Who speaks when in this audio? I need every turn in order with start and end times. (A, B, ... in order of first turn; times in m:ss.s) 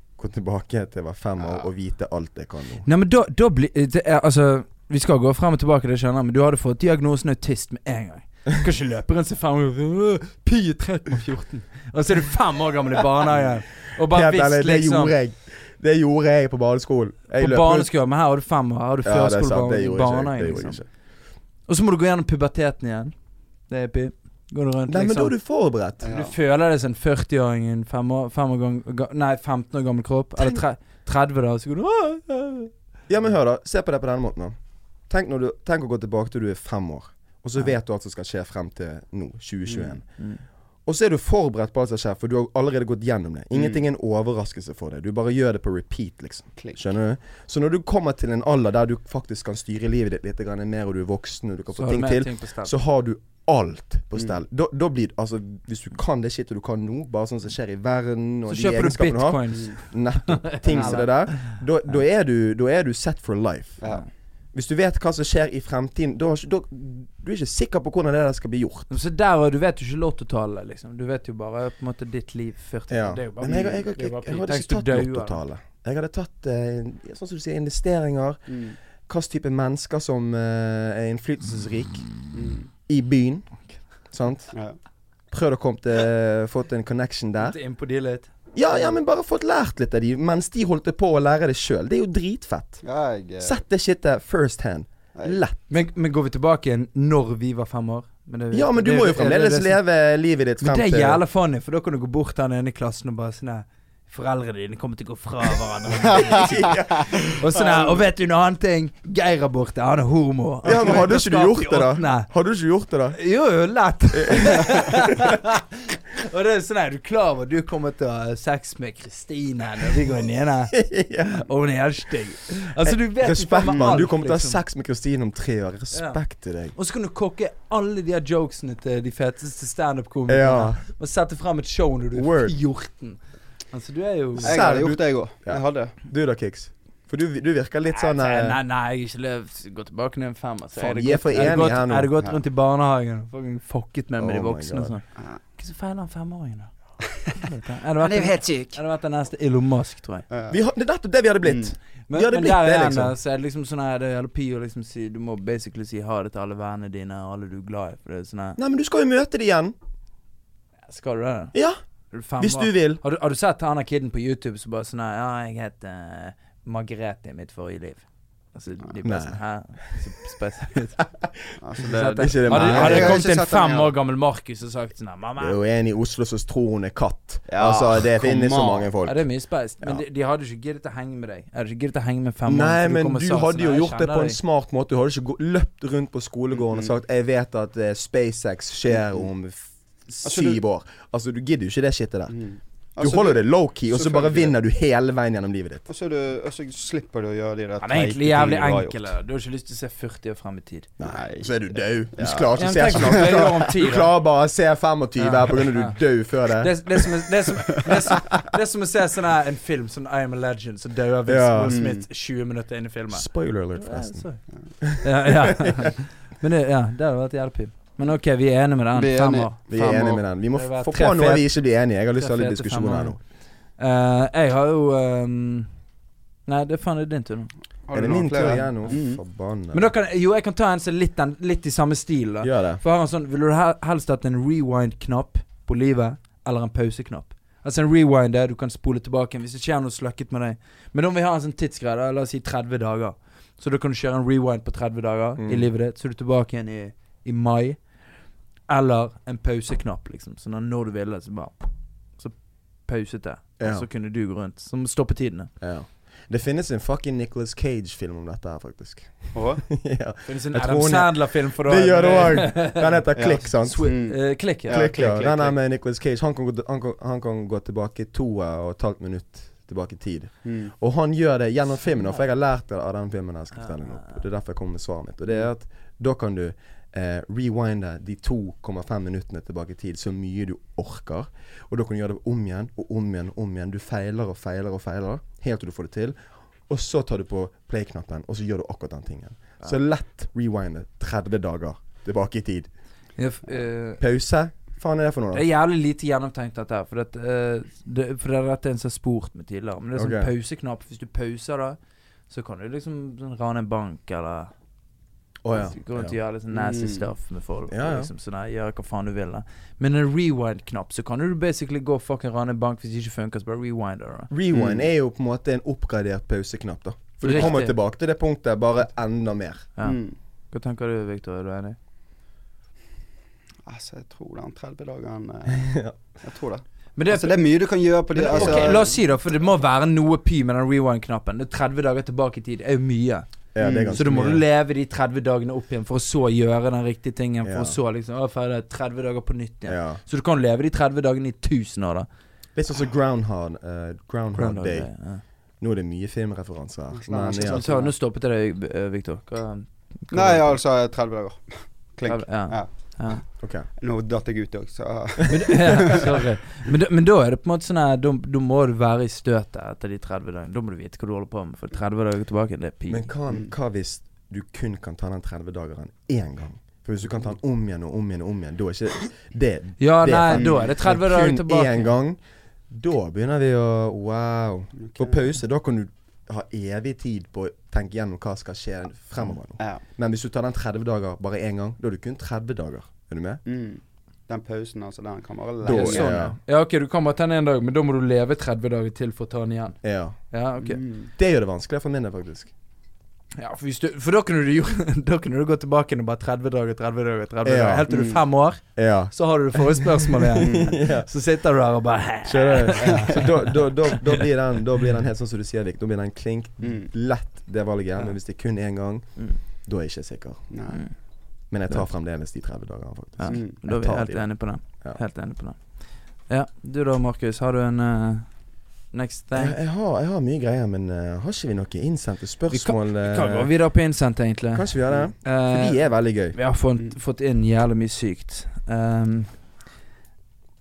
0:00.2-0:02.9 A
0:02.8-0:15.2 B
0:14.1-0:17.9 A
0:17.4-0:20.8 B
0:19.0-0:20.9 A
0:21.7-0:23.2 B
0:23.7-0:25.3 B
0:24.9-0:26.0 A
0:26.0-0:26.3 C
0:26.1-0:32.7 B
0:33.1-0:34.6 A
0:35.1-0:40.0 A
0:39.7-0:40.0 C
0:40.9-1:03.8 A
0:46.6-0:46.8 C
0:51.8-0:52.7 B
0:58.5-1:01.1 B
1:04.5-1:08.9 A
1:08.9-1:15.4 B
1:12.9-1:18.5 A
1:18.5-1:18.8 C
1:19.1-1:22.1 A
1:22.3-1:22.7 C
1:22.9-1:23.5 A
1:24.1-1:24.5 A
1:25.3-1:27.6 A
1:27.4-1:28.3 B
1:28.6-1:32.8 A
1:32.8-1:33.6 C
1:33.4-1:35.6 A
1:35.7-1:39.8 B
1:38.5-1:41.2 A
1:40.6-1:46.8 B
1:46.0-1:48.0 C
1:46.1-1:47.4 A
1:47.4-1:52.3 B
1:50.6-1:53.2 A
1:53.2-2:04.6 B
1:54.2-1:54.8 A
2:00.7-2:01.5 A
2:02.8-2:06.7 A
2:05.9-2:06.2 B
2:06.7-2:13.2 B
2:10.3-2:10.8 A
2:12.2-2:12.6 A
2:13.7-2:14.6 B
2:14.4-2:15.9 C
2:14.4-2:18.6 A
2:17.9-2:25.0 B
2:20.8-2:22.1 A
2:24.2-2:25.0 A
2:25.6-2:26.7 B
2:27.3-2:30.3 B
2:28.0-2:28.8 C
2:30.3-2:30.6 C
2:30.5-2:33.1 A
2:31.4-2:31.7 C
2:32.1-2:38.6 B
2:38.6-2:39.8 A
2:40.9-2:41.5 B
2:42.1-2:51.0 B
2:42.4-2:43.0 A
2:49.0-2:49.4 A
2:51.2-2:51.5 A
2:51.6-2:53.9 C
2:51.8-2:55.6 B
2:52.2-2:53.2 A
2:55.4-2:59.2 A
2:57.5-2:58.9 C
2:59.0-3:04.4 B
3:02.5-3:12.4 A
3:06.6-3:06.9 C
3:09.0-3:09.3 C
3:10.2-3:10.6 C
3:12.3-3:14.6 C
3:13.0-3:15.9 A
3:15.9-3:19.1 C
3:17.8-3:20.9 B
3:21.0-3:27.1 A
3:21.0-3:23.4 C
3:22.6-3:24.1 B
3:25.2-3:26.0 B
3:26.5-3:34.4 B
3:27.9-3:28.4 A
3:31.3-3:31.8 A
3:31.7-3:32.0 C
3:33.1-3:34.2 A
3:34.8-3:35.9 A
3:35.0-3:39.6 B
3:39.0-3:40.2 C
3:39.7-3:43.2 A
3:40.5-3:41.5 B
3:42.2-3:43.2 B
3:43.8-3:45.7 B
3:46.5-3:47.5 B
3:47.9-3:49.2 C
3:47.9-3:49.9 A
3:49.7-4:07.8 B
3:52.4-3:52.8 A
4:05.4-4:05.7 A
4:08.7-4:11.6 B
4:12.2-4:15.5 B
4:13.6-4:13.9 A
4:15.6-4:24.0 A
4:19.3-4:19.6 C
4:20.3-4:25.2 B
4:23.2-4:25.6 C
4:24.7-4:52.7 A
4:30.4-4:30.7 C
4:31.9-4:32.2 B
4:33.6-4:34.2 B
4:53.2-4:54.0 B
4:54.0-4:55.4 A
4:55.3-5:01.8 B
5:00.0-5:00.3 A
5:02.3-5:04.5 B
5:05.4-5:06.2 A
5:05.5-5:14.3 B
5:06.5-5:07.1 C
5:07.7-5:08.1 A
5:14.3-5:19.7 A
5:14.5-5:14.9 C
5:17.2-5:17.8 B
5:19.8-5:20.2 C
5:20.5-5:21.8 B
5:23.7-5:29.0 C
5:25.5-5:25.9 A
5:27.0-5:27.4 B
5:28.2-5:33.3 B
5:28.2-5:28.9 A
5:33.5-5:34.4 A
5:33.6-5:34.0 C
5:34.0-5:42.1 B
5:37.4-5:37.8 A
5:39.7-5:40.0 A
5:42.6-5:44.9 A
5:44.4-5:45.2 B
5:45.6-5:47.6 A
5:46.9-5:47.9 C
5:47.5-5:50.6 B
5:50.1-5:52.7 C
5:52.0-5:53.2 B
5:53.4-5:53.7 A
5:53.8-5:56.1 C
5:55.3-6:03.1 B
6:02.9-6:12.2 A
6:09.8-6:11.9 B
6:10.3-6:10.7 C
6:12.7-6:23.4 A
6:14.8-6:15.2 C
6:23.5-6:26.3 C
6:25.6-6:26.4 A
6:25.7-6:29.8 B
6:29.8-6:30.2 A
6:30.3-6:30.8 B
6:30.6-6:31.1 C
6:31.2-6:32.5 A
6:33.4-6:44.2 B
6:37.4-6:37.9 A
6:37.9-6:38.2 C
6:38.8-6:41.1 A
6:40.4-6:40.8 C
6:42.3-6:49.1 A
6:42.8-6:43.3 C
6:46.6-6:46.9 C
6:49.6-6:50.4 A
6:50.5-6:50.8 C
6:51.5-6:54.3 A
6:53.2-6:55.6 B
6:53.3-6:53.6 C
6:56.3-6:58.3 B
6:58.9-6:59.6 B
6:59.4-7:03.5 A
7:02.5-7:05.8 B
7:04.5-7:06.4 A
7:06.3-7:09.3 B